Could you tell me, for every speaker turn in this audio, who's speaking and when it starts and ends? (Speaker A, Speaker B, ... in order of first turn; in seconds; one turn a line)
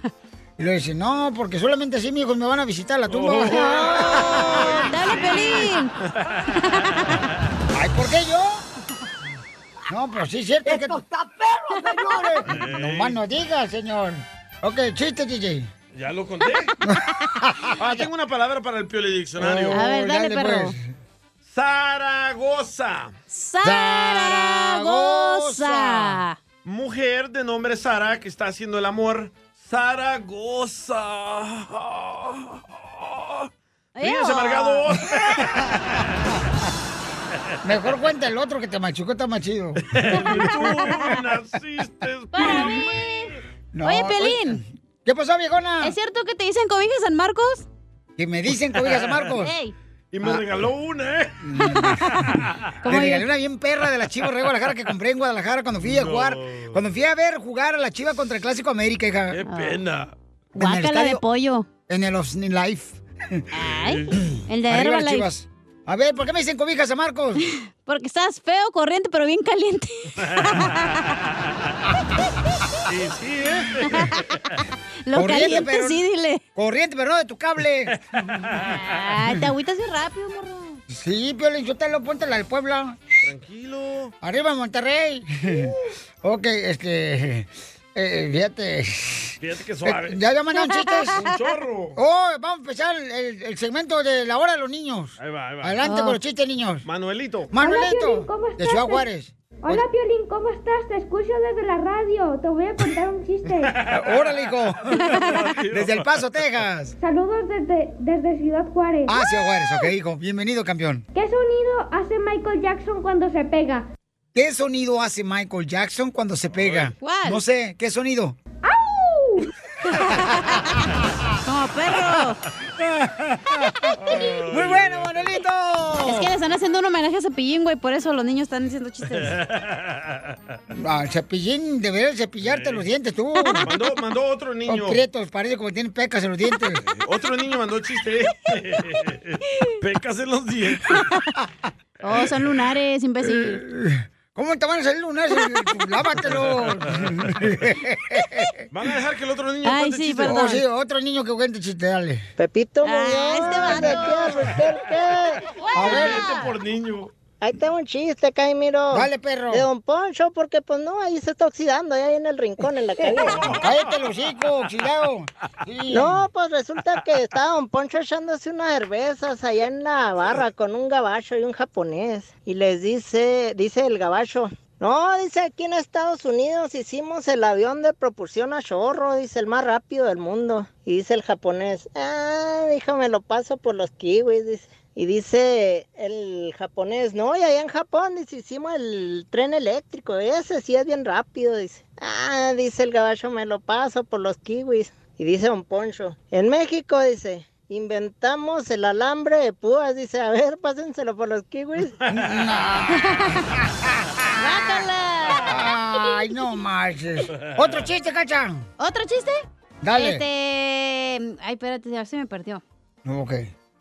Speaker A: 0.6-5.4
Speaker B: 3.1-6.4
Speaker C: 3.5-5.9
Speaker C: 6.5-7.1
Speaker A: 7.7-8.6
Speaker A: 9.9-11.0
Speaker A: 12.1-15.7
Speaker B: 12.5-13.2
Speaker B: 15.9-16.7
Speaker A: 16.8-18.0
Speaker B: 17.8-19.8
Speaker A: 19.4-20.8
Speaker C: 19.7-20.7
Speaker B: 21.4-23.1
Speaker C: 23.3-26.4
Speaker A: 23.6-26.2
Speaker B: 26.6-33.5
Speaker C: 34.0-34.9
Speaker B: 34.0-35.7
Speaker A: 37.6-40.8
Speaker B: 39.9-43.1
Speaker C: 40.1-40.9
Speaker C: 42.3-43.3
Speaker A: 43.7-45.9
Speaker C: 43.8-44.6
Speaker C: 45.8-47.6
Speaker A: 48.2-49.5
Speaker B: 48.8-49.3
Speaker C: 49.4-49.7
Speaker B: 50.1-51.4
Speaker A: 51.4-52.3
Speaker B: 52.0-52.5
Speaker C: 52.8-53.2
Speaker A: 52.8-59.4
Speaker B: 55.8-56.8
Speaker B: 59.3-60.1
Speaker C: 59.5-59.8
Speaker A: 60.5-61.2
Speaker C: 60.5-61.7
Speaker A: 61.9-63.5
Speaker C: 63.6-65.3
Speaker B: 63.6-64.1
Speaker A: 64.3-67.4
Speaker C: 67.8-71.1
Speaker B: 72.9-74.2
Speaker C: 75.1-76.4
Speaker A: 75.1-76.0
Speaker A: 76.5-78.0
Speaker C: 78.7-80.8
Speaker A: 80.9-83.0
Speaker B: 83.2-84.1
Speaker A: 84.2-89.3
Speaker B: 89.4-90.2
Speaker A: 89.8-91.3
Speaker B: 91.1-92.0
Speaker A: 92.0-96.8
Speaker B: 95.2-95.8
Speaker C: 95.8-96.2
Speaker B: 96.8-97.5
Speaker A: 97.5-99.8
Speaker D: 97.6-99.0
Speaker D: 99.6-103.7
Speaker B: 103.5-106.2
Speaker A: 103.9-105.1
Speaker A: 105.7-106.9
Speaker D: 107.0-109.2
Speaker A: 109.1-111.0
Speaker D: 111.1-113.8
Speaker A: 114.3-118.3
Speaker B: 116.6-116.9
Speaker C: 117.0-117.4
Speaker D: 118.6-119.4
Speaker C: 120.0-120.7
Speaker C: 121.5-122.4
Speaker A: 122.8-126.3
Speaker B: 124.0-125.3
Speaker C: 126.0-129.3
Speaker B: 129.1-130.3
Speaker A: 130.7-133.7
Speaker B: 132.4-132.8
Speaker B: 133.6-135.0
Speaker A: 134.7-136.8
Speaker B: 136.9-141.0
Speaker C: 142.0-143.6
Speaker A: 143.2-148.7
Speaker B: 146.2-147.1
Speaker B: 148.7-150.6
Speaker C: 149.6-150.6
Speaker A: 150.2-152.2
Speaker E: 152.4-155.4
Speaker C: 152.8-154.4
Speaker C: 155.6-156.5
Speaker B: 155.7-157.1
Speaker A: 155.7-156.3
Speaker E: 157.4-163.4
Speaker A: 158.9-159.7
Speaker B: 163.1-163.9
Speaker A: 163.6-166.2
Speaker E: 165.9-202.0
Speaker B: 202.0-202.3
Speaker A: 202.1-204.8
Speaker C: 202.9-203.4
Speaker C: 204.4-205.6
Speaker A: 205.4-208.7
Speaker C: 208.8-209.4
Speaker A: 209.8-210.2
Speaker C: 209.9-212.6
Speaker A: 213.1-213.5